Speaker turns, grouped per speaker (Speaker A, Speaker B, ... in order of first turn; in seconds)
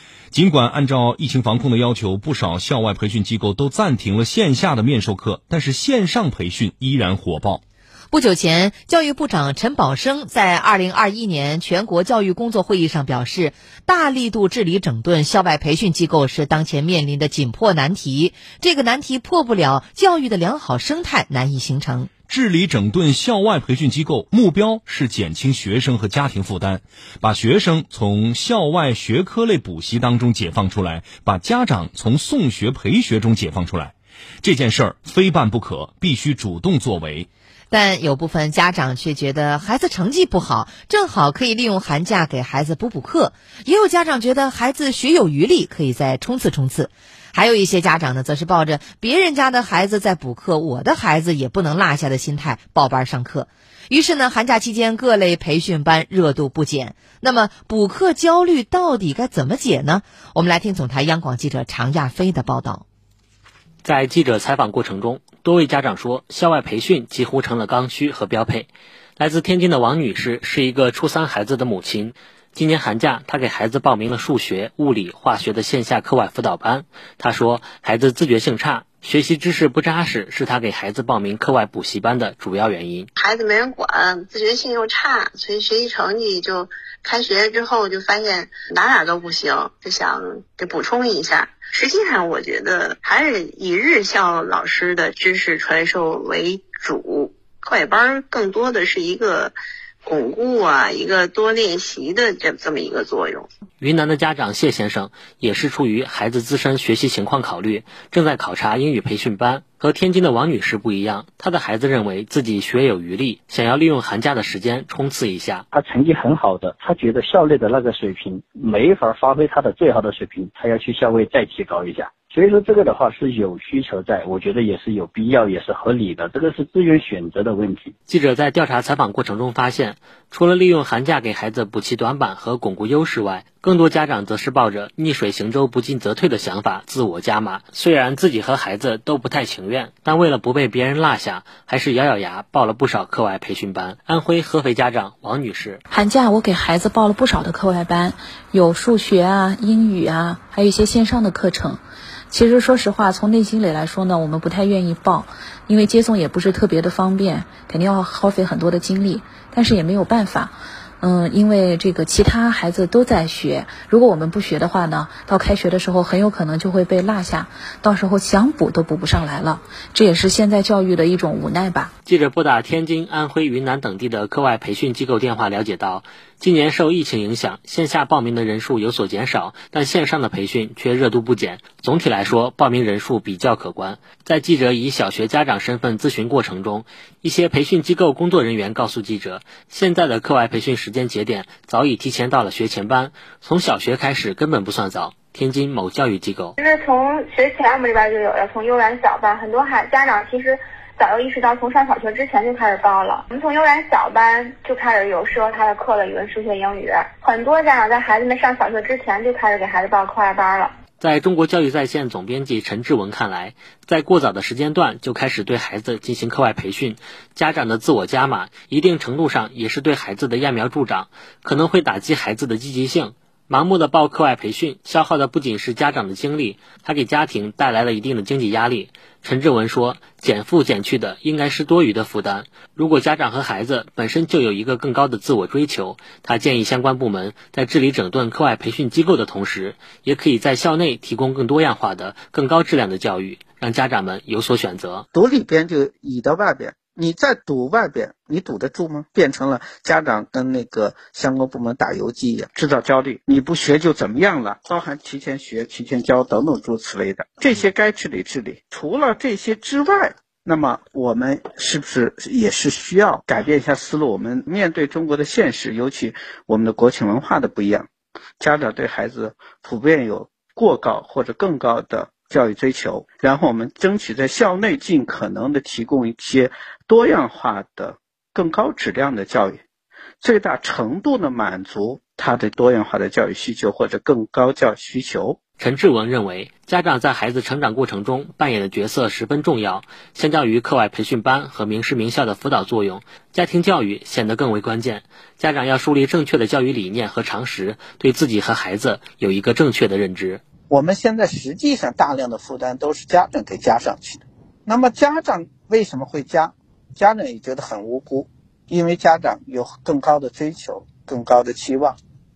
Speaker A: 0.3-7.6, 22.3-37.3
Speaker B: 8.1-22.1, 37.7-62.8
Speaker C: 63.8-83.1, 103.8-115.6, 128.1-145.8, 172.1-196.6, 211.0-245.1, 285.6-300.4
Speaker D: 83.2-103.5
Speaker E: 115.7-127.9
Speaker F: 145.9-171.9
Speaker G: 196.6-210.7
Speaker H: 245.1-267.9, 268.4-279.6, 280.2-285.4, 300.7-312.0